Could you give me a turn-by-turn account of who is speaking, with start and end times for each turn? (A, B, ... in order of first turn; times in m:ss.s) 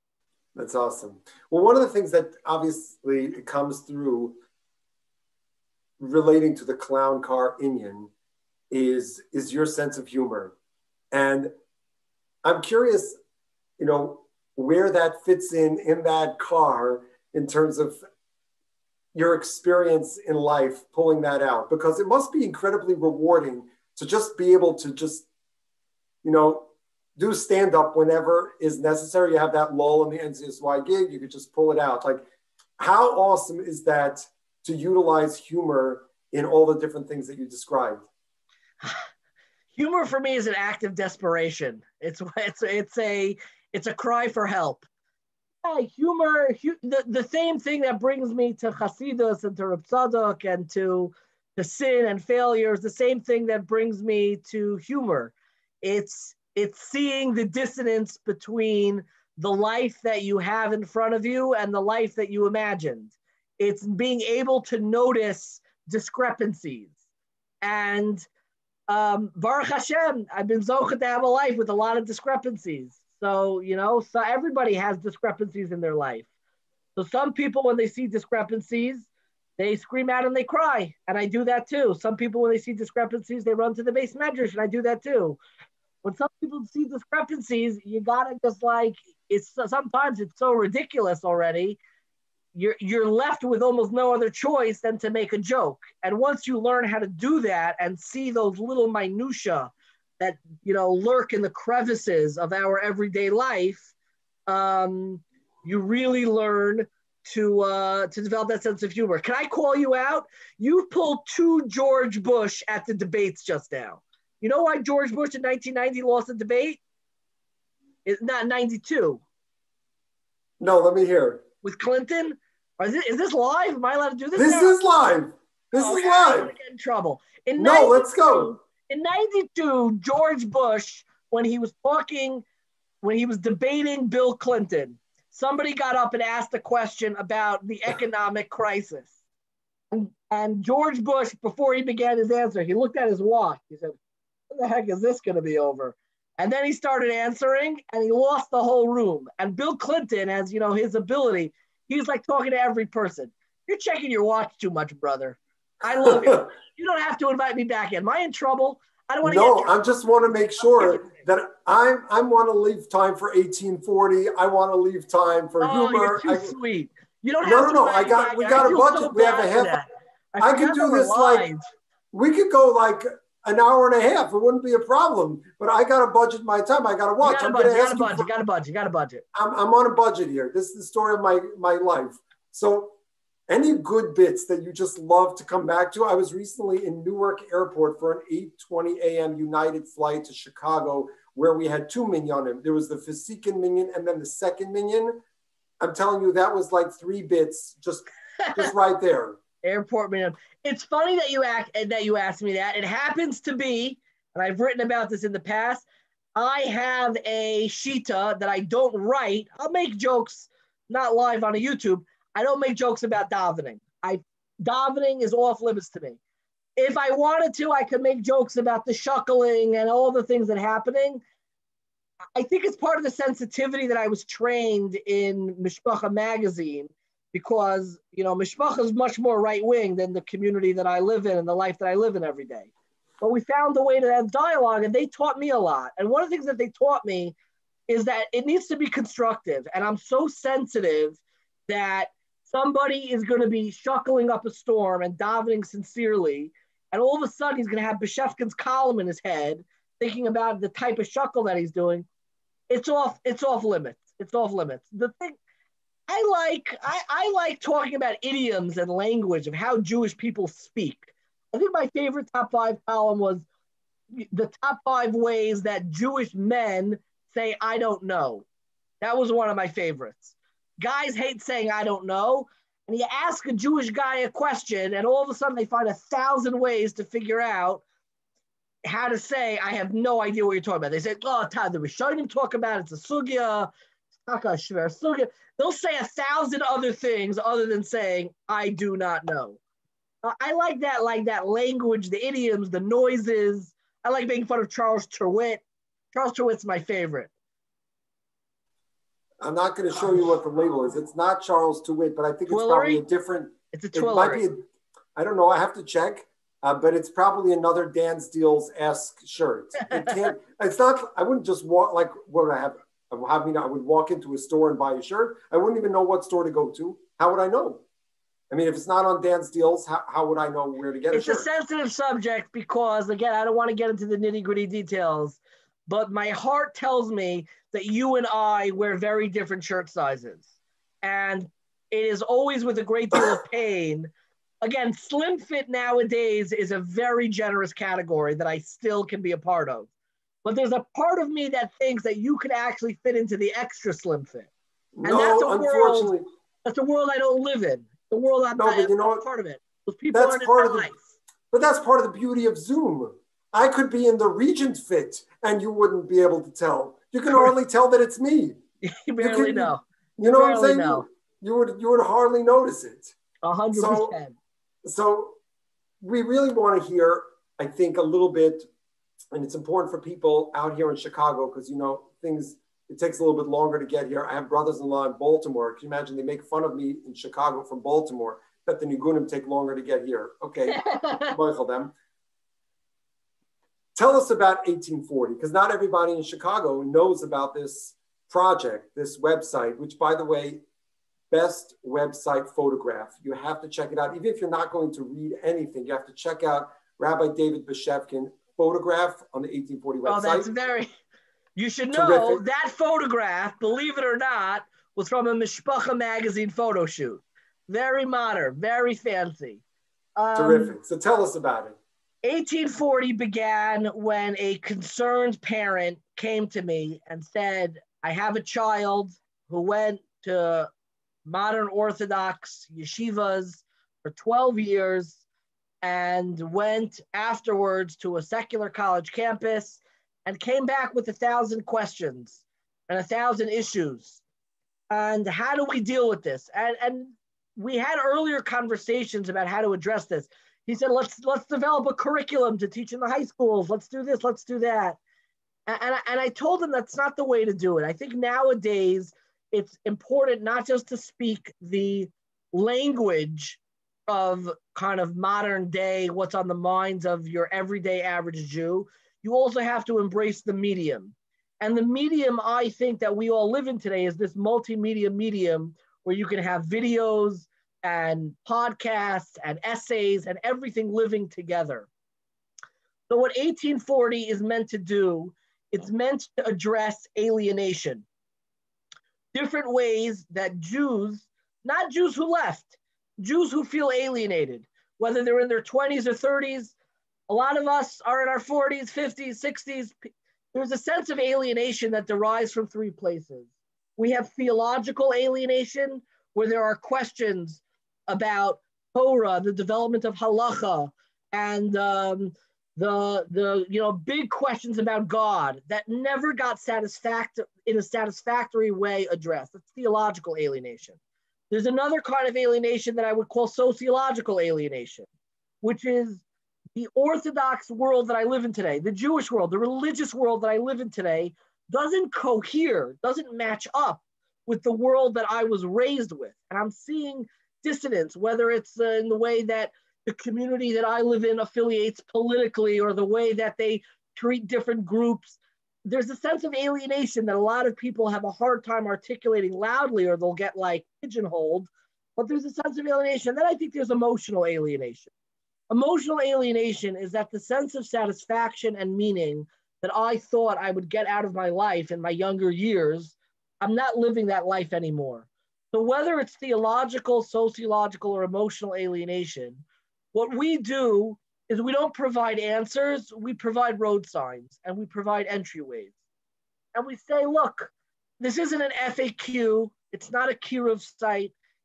0:00.6-0:04.4 A
0:06.0-0:08.1 A
0:08.7-0:10.5 A
0:11.1-0:11.5 A
0:12.4-0:13.2 A
0:13.8-0:18.0 A
0:19.1-0:25.3 A
0:26.2-0:32.2 A
0:32.8-0:38.1 A
0:39.8-0:44.9 B
0:45.6-1:06.9 B
1:07.6-1:08.3 B
1:08.9-1:16.3 B
1:17.0-1:19.1 B
1:19.6-1:25.4 B
1:26.0-1:31.8 B
1:32.5-1:43.9 B
1:44.5-1:56.8 B
1:58.0-1:59.2 B
2:00.6-2:01.4 A
2:01.6-2:04.8 B
2:04.4-2:06.5 A
2:05.8-2:12.4 B
2:07.6-2:08.5 A
2:13.0-2:19.1 B
2:19.9-2:24.0 B
2:24.5-2:39.7 B
2:39.2-2:46.6 A
2:45.6-2:51.6 B
2:47.4-2:49.8 A
2:50.4-2:51.5 A
2:52.1-2:58.3 A
2:57.2-2:59.2 B
2:59.3-3:02.9 A
3:03.5-3:15.2 A
3:15.8-3:19.4 A
3:19.6-3:36.2 B
3:36.8-3:41.2 B
3:42.4-3:52.7 B
3:53.2-3:57.4 B
3:57.9-4:12.1 B
4:12.7-4:15.4 B
4:16.1-4:23.5 B
4:24.1-4:28.4 B
4:29.0-4:37.8 B
4:38.8-4:43.7 B
4:44.3-4:49.6 B
4:50.2-4:57.3 B
4:59.4-5:04.6 A
5:02.5-5:03.0 B
5:03.7-5:04.4 B
5:05.2-5:17.8 A
5:18.5-5:21.5 A
5:21.1-5:30.5 B
5:31.0-5:34.1 B
5:34.6-5:39.9 B
5:40.4-5:44.5 B
5:45.0-5:46.2 A
5:45.0-5:46.1 B
5:46.6-5:51.0 B
5:48.6-5:49.2 A
5:50.1-5:50.9 A
5:51.5-5:58.6 A
5:58.8-6:01.1 B
5:59.2-6:03.2 A
6:03.4-6:04.4 B
6:03.8-6:04.2 A
6:04.8-6:05.4 A
6:06.0-6:08.7 A
6:09.3-6:21.9 A
6:20.7-6:21.3 B
6:24.0-6:30.6 A
6:31.3-6:40.5 A
6:40.1-6:40.9 B
6:41.6-6:49.6 B
6:41.9-6:42.4 A
6:50.2-6:50.8 B
6:50.4-6:51.8 A
6:52.2-7:00.7 B
7:01.3-7:05.2 B
7:05.8-7:14.2 B
7:14.9-7:25.0 B
7:25.7-7:51.9 B
7:53.1-7:58.0 B
7:59.3-8:06.8 B
8:07.3-8:31.0 B
8:31.5-8:35.1 B
8:35.6-8:36.2 B
8:36.8-9:05.1 B
9:05.7-9:19.6 B
9:20.1-9:25.9 B
9:26.7-9:31.3 B